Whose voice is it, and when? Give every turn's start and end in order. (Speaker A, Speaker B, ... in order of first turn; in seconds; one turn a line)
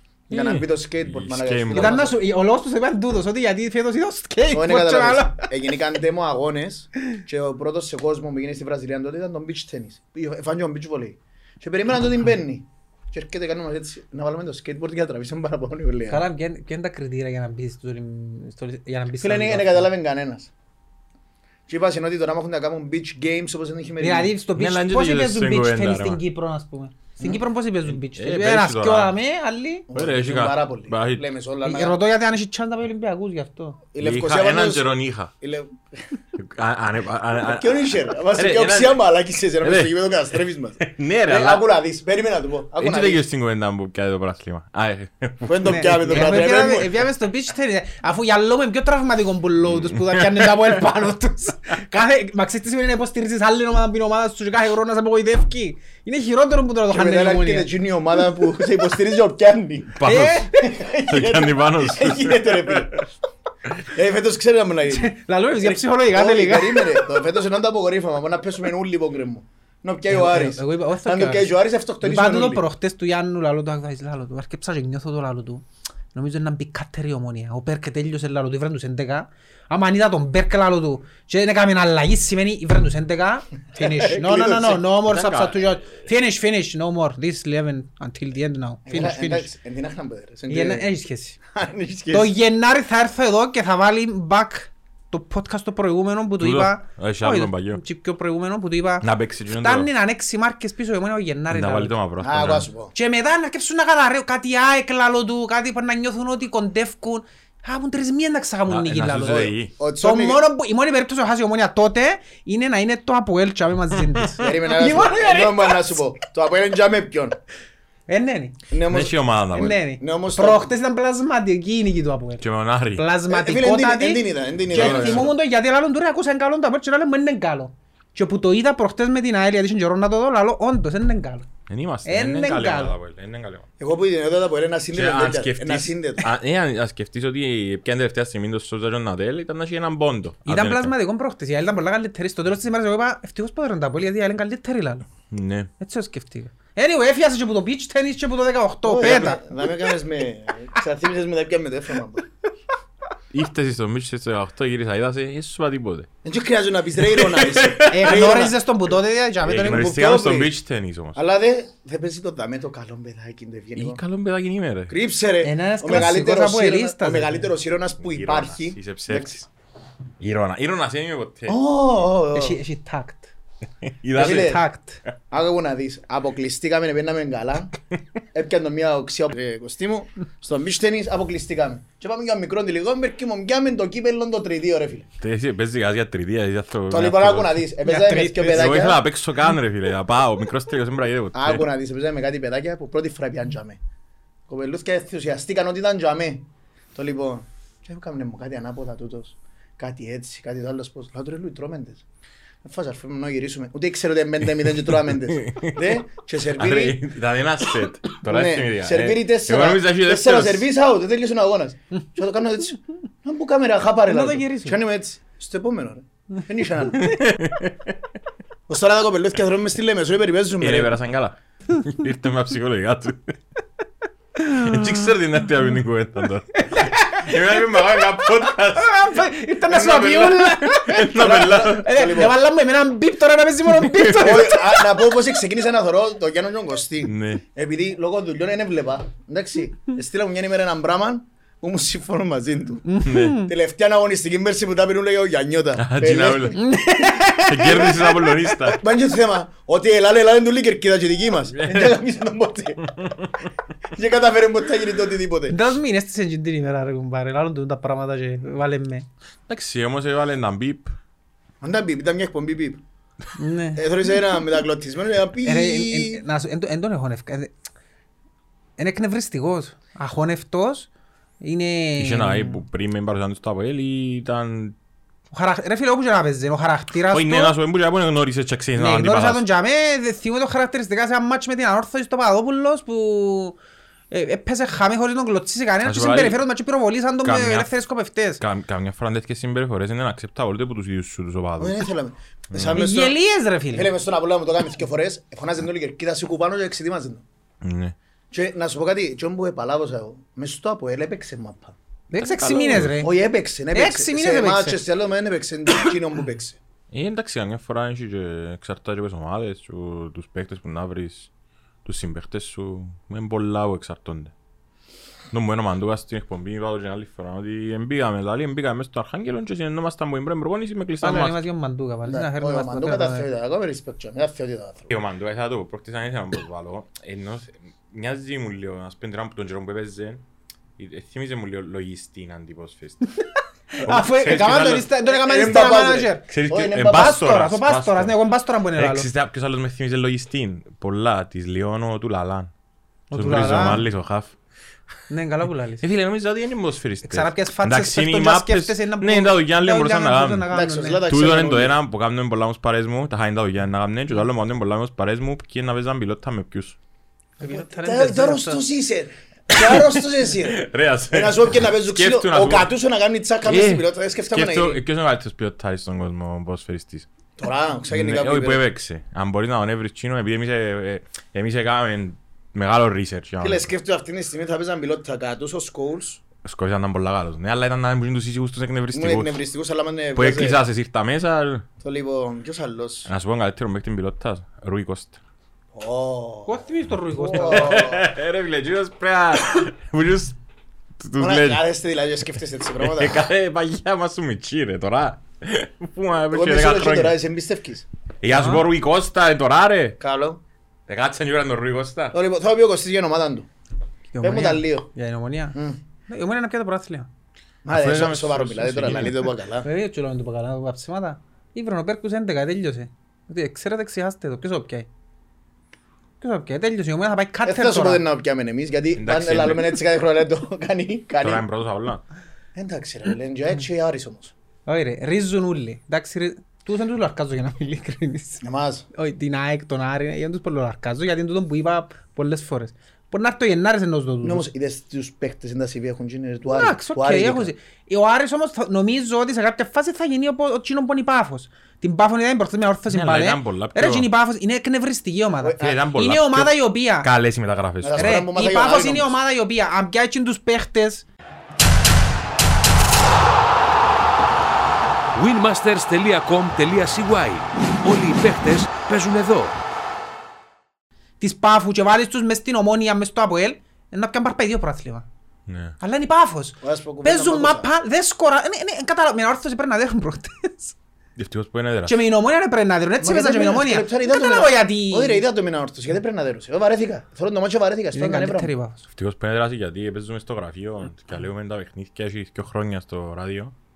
Speaker A: 0.3-2.0
Speaker B: 0.3-2.2
Speaker C: 1.7-5.5
Speaker B: 4.5-16.2
Speaker C: 16.1-19.9
Speaker B: 19.2-20.5
Speaker B: 21.7-24.3
Speaker C: 24.0-29.9
Speaker A: 24.6-26.2
Speaker A: 27.9-29.1
Speaker B: 29.9-32.0
Speaker A: 29.9-31.2
Speaker C: 31.6-33.8
Speaker B: 33.9-36.0
Speaker A: 34.0-35.3
Speaker A: 36.4-39.0
Speaker B: 37.4-43.2
Speaker A: 39.6-41.6
Speaker A: 42.8-46.0
Speaker B: 45.5-47.0
Speaker C: 45.6-57.7
Speaker A: 49.7-50.8
Speaker B: 56.9-60.0
Speaker A: 59.9-60.5
Speaker C: 60.0-60.8
Speaker B: 60.5-63.0
Speaker A: 61.1-63.0
Speaker B: 63.8-72.6
Speaker C: 64.9-67.0
Speaker C: 70.1-89.5
Speaker B: 83.8-84.8
Speaker A: 85.1-85.7
Speaker B: 88.8-90.9
Speaker C: 90.5-91.4
Speaker B: 91.5-92.3
Speaker C: 92.1-101.9
Speaker A: 96.4-97.8
Speaker A: 99.0-99.9
Speaker A: 101.5-102.7
Speaker B: 102.2-102.9
Speaker C: 102.9-116.0
Speaker A: 108.7-109.7
Speaker B: 109.8-110.4
Speaker B: 114.4-117.4
Speaker C: 118.1-118.6
Speaker B: 118.7-119.1
Speaker A: 118.9-119.8
Speaker C: 119.5-122.4
Speaker B: 119.9-120.7
Speaker A: 122.4-123.0
Speaker C: 123.0-131.4
Speaker B: 123.3-125.3
Speaker A: 124.7-125.3
Speaker A: 131.7-133.7
Speaker C: 132.0-132.9
Speaker B: 133.8-136.3
Speaker A: 134.9-140.9
Speaker C: 140.4-145.0
Speaker A: 145.3-145.7
Speaker C: 145.8-149.5
Speaker B: 148.8-152.3
Speaker A: 153.3-156.1
Speaker B: 156.2-158.6
Speaker A: 157.0-158.1
Speaker C: 157.9-159.9
Speaker A: 159.4-161.2
Speaker B: 159.6-160.5
Speaker B: 161.1-164.0
Speaker A: 163.8-164.9
Speaker B: 164.9-169.4
Speaker C: 165.4-167.5
Speaker A: 168.0-169.5
Speaker A: 170.2-171.6
Speaker B: 171.5-172.6
Speaker C: 172.3-173.3
Speaker A: 173.8-174.6
Speaker B: 174.1-174.6
Speaker C: 174.2-175.0
Speaker B: 175.3-177.7
Speaker B: 178.3-185.1
Speaker A: 185.2-187.6
Speaker B: 186.9-189.0
Speaker C: 187.8-188.8
Speaker A: 188.5-191.7
Speaker B: 191.3-193.8
Speaker B: 194.5-202.0
Speaker B: 202.6-207.0
Speaker A: 205.1-205.8
Speaker A: 206.5-210.7
Speaker B: 208.2-217.1
Speaker C: 214.1-214.8
Speaker A: 216.9-217.9
Speaker B: 218.7-221.0
Speaker A: 220.6-223.4
Speaker A: 224.4-229.0
Speaker C: 226.5-227.8
Speaker C: 228.6-235.0
Speaker A: 229.7-232.0
Speaker B: 231.1-232.4
Speaker A: 233.8-234.4
Speaker B: 234.2-242.8
Speaker A: 237.0-237.4
Speaker C: 242.9-243.5
Speaker A: 243.0-243.4
Speaker B: 243.4-246.6
Speaker A: 245.8-246.7
Speaker C: 246.5-248.6
Speaker A: 247.2-248.8
Speaker B: 248.7-252.9
Speaker A: 251.6-251.9
Speaker A: 253.0-253.3
Speaker B: 253.9-255.7
Speaker C: 255.5-259.1
Speaker A: 259.5-260.9
Speaker B: 261.6-262.8
Speaker C: 263.4-263.9
Speaker B: 263.8-266.2
Speaker C: 265.4-267.5
Speaker C: 268.8-270.9
Speaker C: 271.4-272.6
Speaker A: 272.0-274.7
Speaker C: 275.3-277.6
Speaker A: 277.1-279.4
Speaker C: 278.8-283.6
Speaker C: 284.1-288.4
Speaker A: 285.8-286.4
Speaker A: 287.2-287.7
Speaker A: 288.4-291.9
Speaker B: 291.6-293.1
Speaker A: 292.5-292.9
Speaker C: 292.7-293.9
Speaker B: 293.7-297.2
Speaker A: 297.6-297.9
Speaker B: 298.3-301.8
Speaker C: 302.1-303.1
Speaker A: 302.1-303.0
Speaker B: 302.9-306.6
Speaker C: 303.7-304.8
Speaker A: 306.9-311.3
Speaker A: 311.8-314.3
Speaker A: 315.3-321.4
Speaker C: 321.0-323.3
Speaker B: 322.1-324.9
Speaker A: 324.9-330.2
Speaker A: 330.8-333.1
Speaker C: 333.2-336.2
Speaker A: 333.8-334.9
Speaker B: 335.1-337.2
Speaker A: 336.3-338.1
Speaker C: 336.9-339.1
Speaker A: 338.8-342.5
Speaker C: 343.1-343.8
Speaker A: 343.1-344.4
Speaker C: 345.1-345.8
Speaker A: 345.8-350.5
Speaker C: 347.1-351.0
Speaker B: 350.5-351.8
Speaker A: 351.1-356.8
Speaker C: 357.4-358.6
Speaker B: 357.4-364.8
Speaker A: 360.4-362.7
Speaker A: 363.4-367.1
Speaker B: 367.4-368.6
Speaker A: 367.9-373.7
Speaker B: 373.4-376.2
Speaker A: 376.4-379.4
Speaker B: 378.9-380.6
Speaker A: 380.1-381.6
Speaker B: 381.8-383.1
Speaker A: 383.1-385.2
Speaker B: 385.7-386.6
Speaker C: 386.4-387.8
Speaker B: 387.1-388.1
Speaker A: 387.3-390.4
Speaker A: 391.0-391.6
Speaker B: 391.2-393.3
Speaker A: 392.8-397.1
Speaker B: 396.3-397.9
Speaker A: 398.2-400.0
Speaker C: 398.3-398.6
Speaker B: 400.0-400.4
Speaker A: 400.9-402.1
Speaker B: 402.1-403.5
Speaker C: 404.1-407.1
Speaker B: 404.2-404.9
Speaker B: 405.5-405.8
Speaker B: 407.6-409.7
Speaker A: 407.7-409.3
Speaker C: 409.6-414.9
Speaker C: 416.2-418.0
Speaker B: 417.4-421.4
Speaker A: 418.9-419.7
Speaker A: 421.2-422.0
Speaker B: 422.5-424.3
Speaker C: 424.6-434.4
Speaker B: 428.4-428.9
Speaker B: 434.2-437.5
Speaker C: 436.4-447.1
Speaker A: 442.9-444.1
Speaker B: 445.4-445.8
Speaker A: 445.6-448.2
Speaker B: 447.8-449.2
Speaker C: 448.0-451.0
Speaker D: 455.1-459.6
Speaker C: 461.2-465.1
Speaker A: 465.5-465.7
Speaker C: 465.8-470.8
Speaker B: 466.6-467.7
Speaker A: 471.1-472.0
Speaker C: 471.9-475.2
Speaker B: 473.0-478.5
Speaker C: 477.9-478.8
Speaker A: 478.9-483.5